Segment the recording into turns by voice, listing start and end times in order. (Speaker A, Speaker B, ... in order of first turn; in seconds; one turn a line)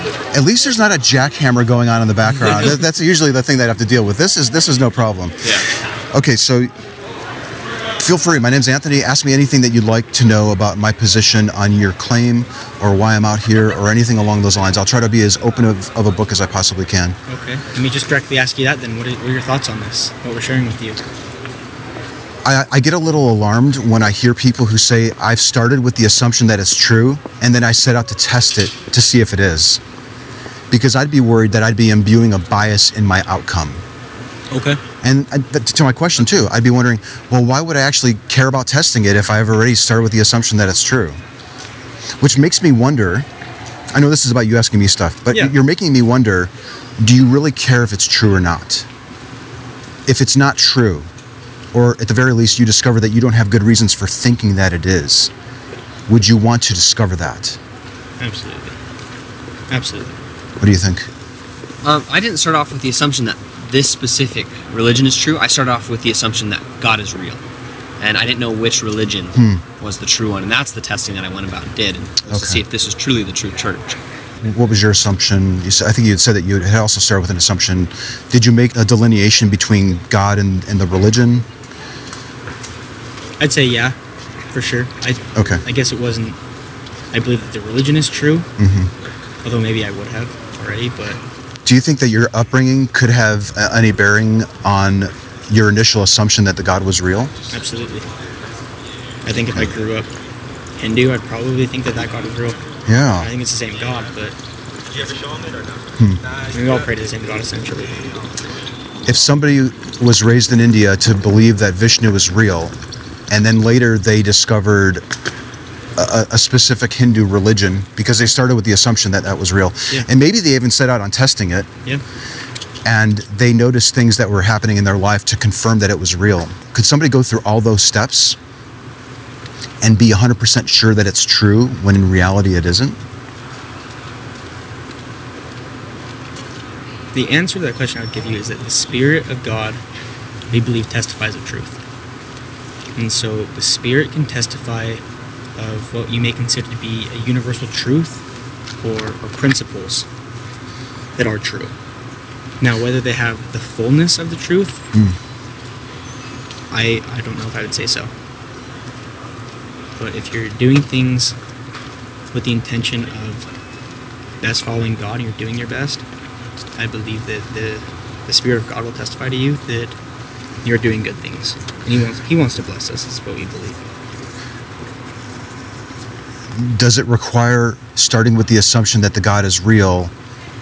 Speaker A: 0.3-5.5
Speaker A: 6.1-6.7
Speaker A: 8.0-17.2
Speaker B: 17.3-21.0
Speaker A: 22.4-29.8
Speaker A: 30.7-33.8
Speaker B: 34.5-34.8
Speaker A: 35.0-41.2
Speaker A: 42.2-43.3
Speaker A: 43.9-48.9
Speaker A: 50.0-51.1
Speaker A: 51.7-55.3
Speaker A: 56.1-57.6
Speaker B: 58.2-58.8
Speaker B: 59.7-60.2
Speaker A: 60.6-61.1
Speaker C: 61.8-67.4
Speaker C: 68.0-74.0
Speaker A: 69.3-69.6
Speaker A: 72.3-72.6
Speaker A: 74.4-81.5
Speaker B: 83.4-84.0
Speaker B: 84.5-86.4
Speaker A: 85.3-85.6
Speaker B: 87.1-88.5
Speaker A: 88.6-88.9
Speaker B: 89.4-91.2
Speaker A: 91.6-97.3
Speaker B: 97.5-98.1
Speaker B: 99.2-100.1
Speaker B: 100.8-102.6
Speaker A: 102.9-103.3
Speaker B: 103.2-104.4
Speaker A: 106.0-106.2
Speaker B: 106.5-108.2
Speaker A: 109.0-112.7
Speaker A: 113.3-115.0
Speaker A: 116.0-121.7
Speaker A: 122.8-128.4
Speaker A: 129.8-133.0
Speaker B: 137.1-139.8
Speaker B: 140.5-141.8
Speaker B: 142.9-145.0
Speaker B: 145.6-148.2
Speaker B: 148.8-150.1
Speaker B: 151.2-151.7
Speaker B: 152.6-154.8
Speaker B: 156.7-158.1
Speaker B: 160.0-161.3
Speaker B: 162.3-163.5
Speaker B: 164.4-166.0
Speaker B: 166.8-169.9
Speaker B: 170.6-173.8
Speaker A: 176.5-180.1